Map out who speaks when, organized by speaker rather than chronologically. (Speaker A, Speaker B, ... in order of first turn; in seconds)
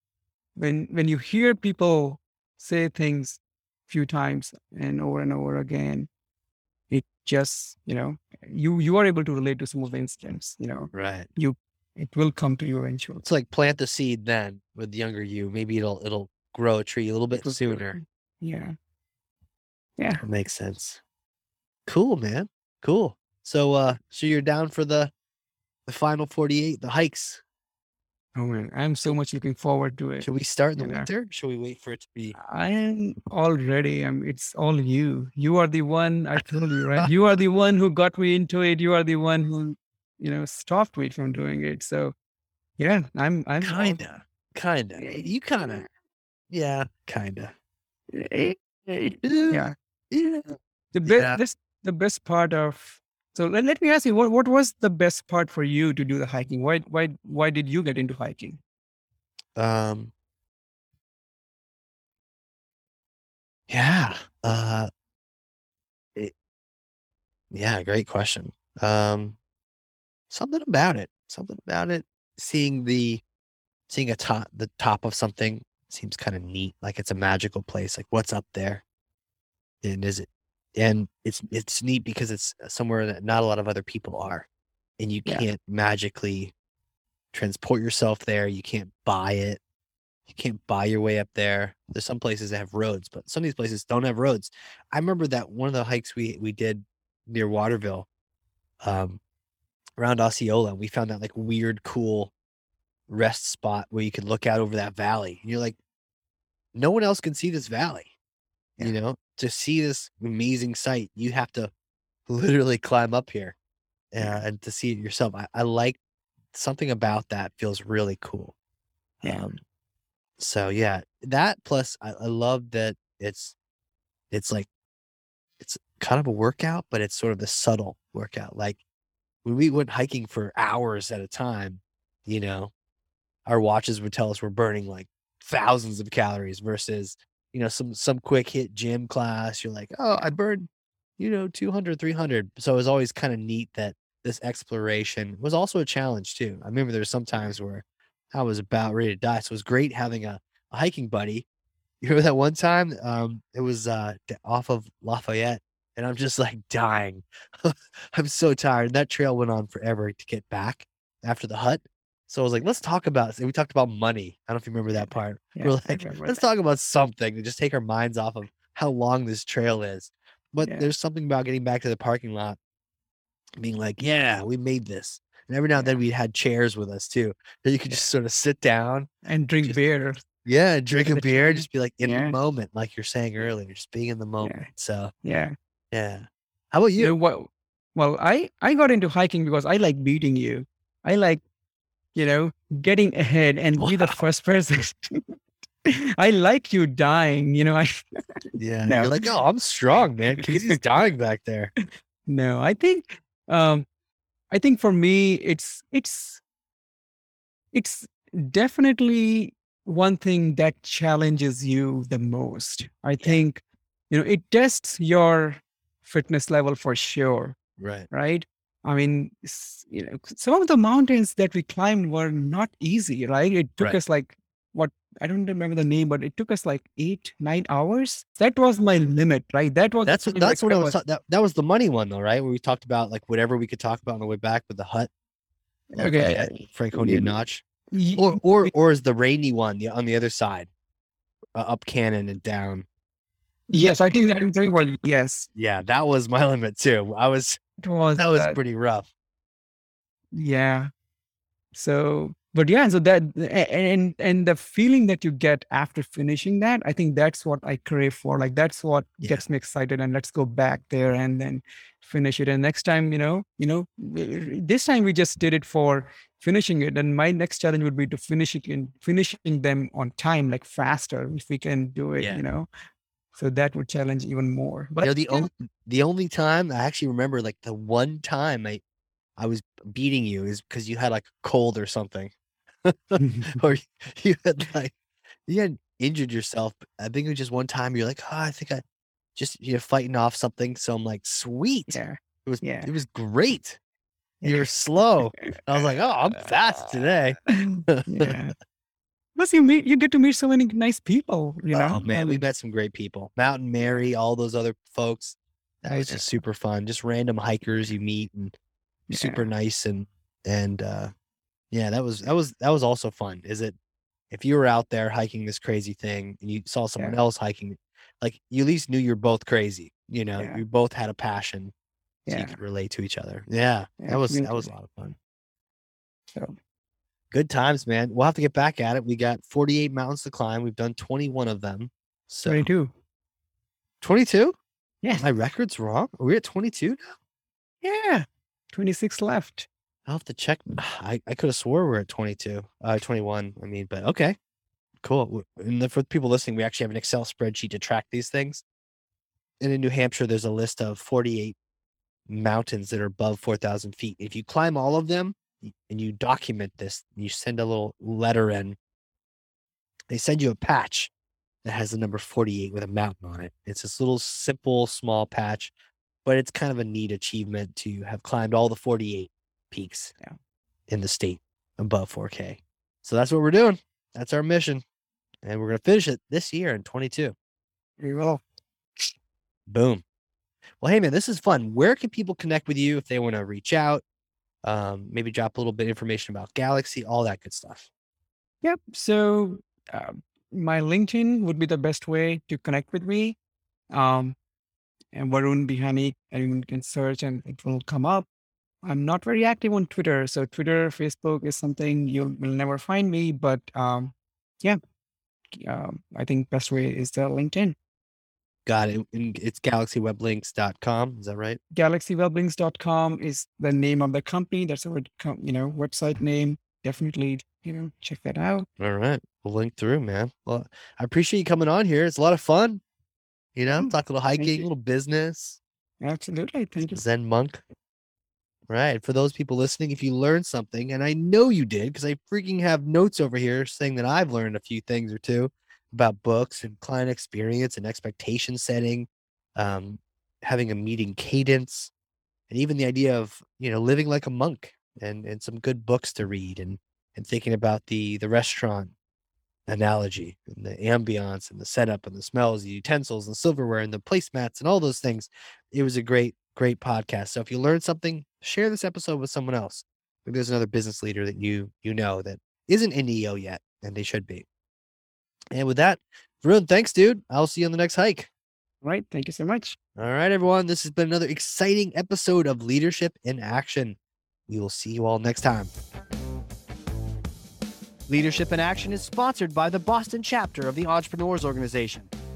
Speaker A: 0.6-6.1, 6.9-13.2, 17.3-18.8, 20.0-20.2, 28.4-31.1, 32.4-42.1, 42.8-44.0, 45.0-45.9, 48.1-49.7, 50.9-58.6, 119.2-119.5, 164.9-166.4, 170.6-170.9, 179.2-180.2, 180.9-182.4, 184.4-184.7, 185.2-185.6, 187.0-191.4, 192.1-195.3, 195.9-198.0, 198.8-199.2, 200.4-200.8, 202.3-203.9, 204.5-206.4, 207.7-217.6, 218.1-231.0, 235.9-237.3, 237.9-238.7, 243.7-245.5, 247.8-248.6, 250.3-250.9, 251.7-272.7, 273.3-275.5, 283.2-283.6, 291.9-292.9, 294.4-294.7, 295.4-295.8, 296.4-298.6, 299.4-302.4, 303.8-304.1, 305.9-306.4, 309.1-309.5, 322.3-322.6, 324.0-324.7, 332.5-332.9, 335.0-335.3, 337.8-339.7, 378.0-378.4, 388.6-393.4, 393.9-394.4, 395.1-398.3, 398.8-404.8, 405.5-407.8, 411.7-418.7, 423.7-424.7, 426.0-427.0, 468.8-469.8
Speaker B: 10.9-11.3, 13.2-18.0, 20.2-21.0, 21.9-25.1, 25.9-27.4, 30.2-32.4, 43.6-45.9, 46.5-47.5, 49.2-50.6, 51.1-51.4, 59.6-60.1, 63.7-64.9, 67.5-69.4, 70.3-73.2, 73.9-78.8, 79.8-84.5, 85.0-86.5, 87.3-89.6, 90.3-98.1, 98.8-99.2, 100.0-102.3, 103.1-105.8, 106.7-108.1, 108.8-111.7, 112.3-113.6, 114.1-116.0, 116.5-118.5, 119.2-119.6, 120.4-123.5, 124.3-124.7, 125.6-128.8, 129.4-132.7, 133.5-140.7, 141.2-151.4, 152.0-172.6, 173.6-179.1, 180.4-185.1, 185.9-187.1, 193.8-194.2, 198.6-201.7, 217.8-218.1, 230.1-235.1, 235.9-237.6, 238.2-240.7, 241.6-242.9, 245.6-247.6, 248.2-249.1, 275.0-278.8, 279.4-282.3, 282.9-284.9, 285.5-288.8, 289.4-293.8, 294.4-298.4, 301.7-308.5, 309.1-311.1, 311.7-313.8, 314.3-321.7, 322.3-325.1, 327.3-332.7, 334.0-334.6, 335.2-337.1, 340.1-344.4, 345.0-348.6, 349.6-351.6, 352.3-358.8, 360.1-361.1, 361.6-365.7, 366.2-370.1, 370.9-374.8, 375.4-377.4, 379.7-380.0, 380.8-384.0, 384.6-387.9, 408.7-411.6, 418.8-422.8, 423.6-425.6, 426.9-427.6, 428.7-441.9, 442.5-448.9, 449.7-464.4, 465.5-468.3, 470.0-474.0, 474.5-475.7
Speaker C: 478.1-482.1